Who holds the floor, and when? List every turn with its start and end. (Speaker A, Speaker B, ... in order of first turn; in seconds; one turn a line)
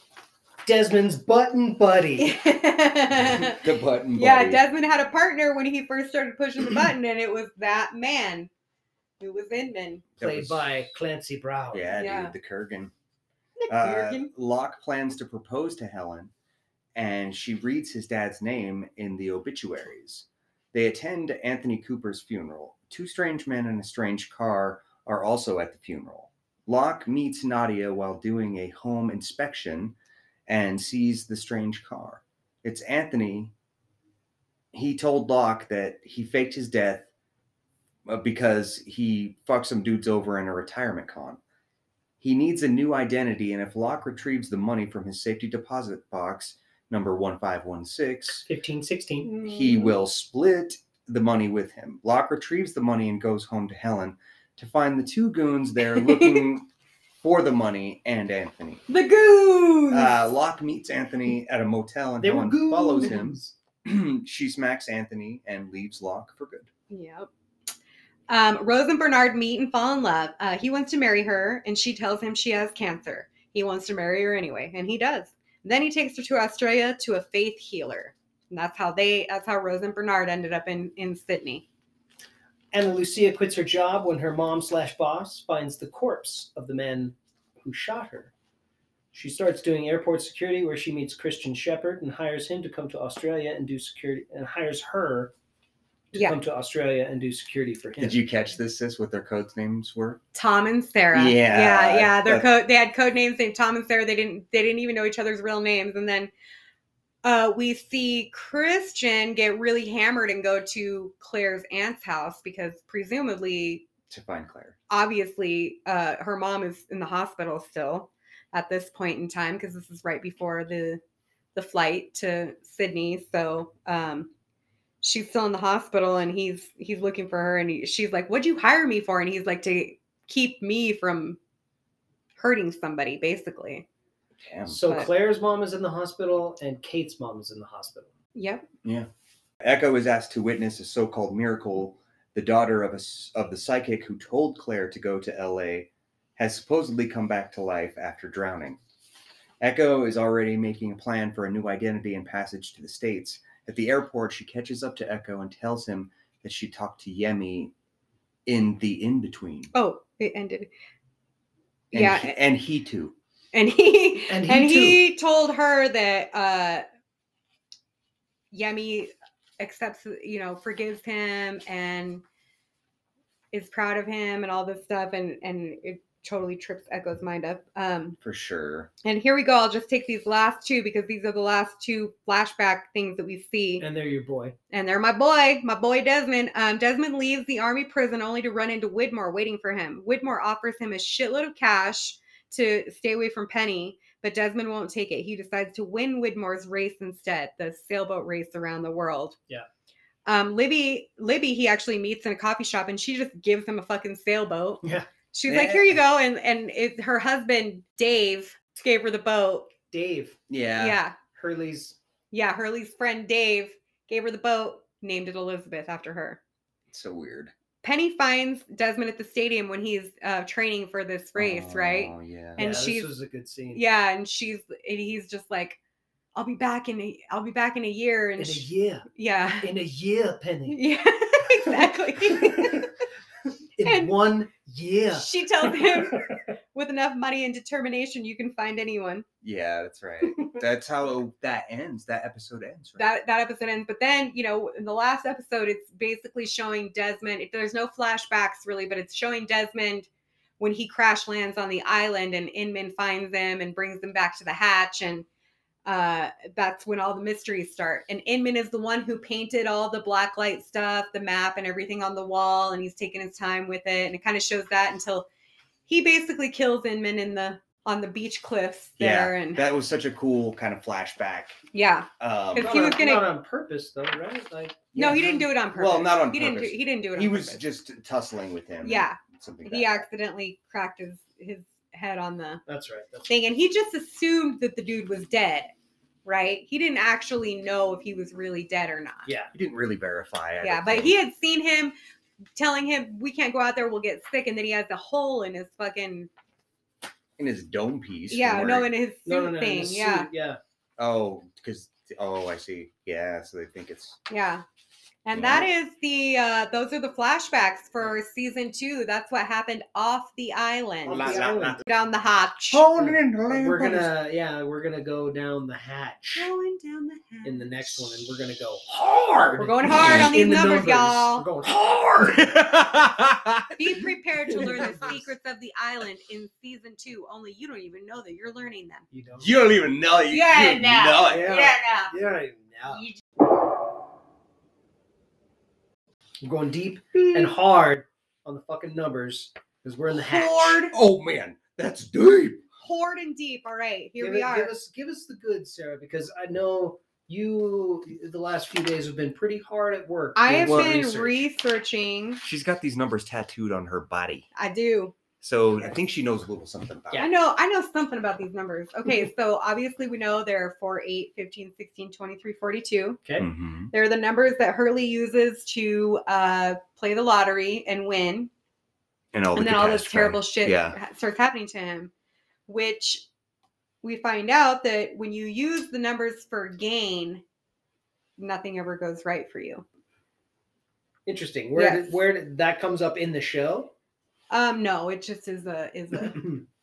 Speaker A: 0.7-2.3
Speaker B: 2.2-3.6
Speaker C: 3.2-4.6
Speaker B: 4.2-8.5
Speaker B: 9.2-10.0
Speaker C: 10.2-10.7
Speaker A: 10.2-11.8
Speaker C: 11.7-12.9
Speaker B: 11.9-12.3
Speaker B: 13.6-14.3
Speaker C: 13.7-16.3
Speaker C: 16.9-29.9
Speaker C: 30.5-33.5
Speaker C: 34.7-37.1
Speaker C: 38.0-41.4
Speaker C: 42.2-48.4
Speaker A: 48.4-49.3
Speaker B: 49.2-50.0
Speaker C: 49.4-56.7
Speaker B: 55.8-56.5
Speaker C: 57.2-58.8
Speaker B: 58.9-60.2
Speaker C: 59.9-66.7
Speaker A: 62.2-63.5
Speaker B: 66.9-67.3
Speaker B: 68.3-81.6
Speaker A: 82.7-88.3
Speaker A: 89.1-95.3
Speaker A: 96.1-98.2
Speaker C: 98.0-100.2
Speaker B: 100.3-106.3
Speaker C: 101.1-102.5
Speaker B: 107.2-113.8
Speaker C: 114.1-114.7
Speaker B: 114.9-121.0
Speaker B: 121.5-124.3
Speaker B: 125.0-131.4
Speaker B: 132.4-133.8
Speaker C: 134.4-134.8
Speaker A: 134.7-138.1
Speaker B: 138.3-138.7
Speaker C: 139.6-148.8
Speaker C: 149.6-157.7
Speaker C: 158.4-159.7
Speaker B: 159.7-160.7
Speaker C: 161.9-163.1
Speaker B: 161.9-162.3
Speaker B: 163.5-166.8
Speaker A: 164.3-165.0
Speaker B: 168.5-172.2
Speaker B: 173.5-178.2
Speaker C: 178.2-178.9
Speaker B: 179.0-183.8
Speaker A: 183.8-184.5
Speaker B: 184.7-199.3
Speaker B: 200.2-209.7
Speaker C: 205.5-205.9
Speaker A: 209.9-210.4
Speaker C: 210.5-211.0
Speaker B: 210.8-211.2
Speaker A: 211.3-211.9
Speaker B: 212.3-216.4
Speaker C: 216.9-217.5
Speaker B: 217.8-223.1
Speaker C: 221.3-222.7
Speaker A: 222.6-223.8
Speaker B: 223.7-225.8
Speaker B: 226.3-229.7
Speaker A: 228.4-229.1
Speaker A: 229.6-230.8
Speaker B: 230.7-232.9
Speaker A: 232.3-232.9
Speaker A: 233.8-236.4
Speaker B: 233.8-234.1
Speaker B: 235.1-239.2
Speaker C: 239.4-243.1
Speaker B: 243.0-250.1
Speaker B: 250.6-255.2
Speaker B: 255.8-265.3
Speaker B: 265.9-269.6
Speaker C: 269.0-271.6
Speaker B: 271.7-273.3
Speaker C: 272.2-272.8
Speaker A: 272.6-275.4
Speaker C: 274.9-280.0
Speaker B: 274.9-277.6
Speaker B: 278.8-282.6
Speaker A: 282.7-283.3
Speaker B: 283.3-285.7
Speaker B: 286.2-289.3
Speaker A: 289.2-289.5
Speaker C: 289.5-291.1
Speaker B: 290.6-291.9
Speaker B: 292.6-296.3
Speaker C: 297.4-298.9
Speaker B: 298.3-300.3
Speaker A: 299.2-300.6
Speaker C: 301.0-304.2
Speaker B: 304.3-304.6
Speaker B: 305.2-312.8
Speaker C: 305.3-305.7
Speaker A: 311.1-311.8
Speaker C: 311.1-311.9
Speaker C: 312.7-314.1
Speaker A: 312.9-316.5
Speaker B: 316.3-318.1
Speaker A: 317.4-321.9
Speaker C: 319.1-320.3
Speaker B: 319.6-321.5
Speaker C: 321.6-323.8
Speaker B: 323.8-329.1
Speaker A: 324.5-325.3
Speaker A: 329.1-329.7
Speaker C: 329.4-331.6
Speaker B: 330.3-332.1
Speaker A: 331.2-333.0
Speaker B: 332.9-333.2
Speaker A: 336.4-340.8
Speaker B: 340.2-340.9
Speaker C: 340.9-342.6
Speaker B: 342.8-344.7
Speaker A: 344.2-351.4
Speaker B: 350.4-352.4
Speaker C: 350.6-350.9
Speaker C: 352.4-354.5
Speaker B: 354.5-355.1
Speaker C: 355.4-357.2
Speaker B: 357.2-363.2
Speaker C: 363.4-363.9
Speaker B: 363.9-368.5
Speaker C: 369.3-370.9
Speaker B: 369.5-372.1
Speaker B: 372.7-373.2
Speaker B: 374.0-377.4
Speaker B: 378.4-379.8
Speaker A: 381.2-383.9
Speaker B: 381.8-382.2
Speaker B: 384.5-386.5
Speaker A: 386.1-386.6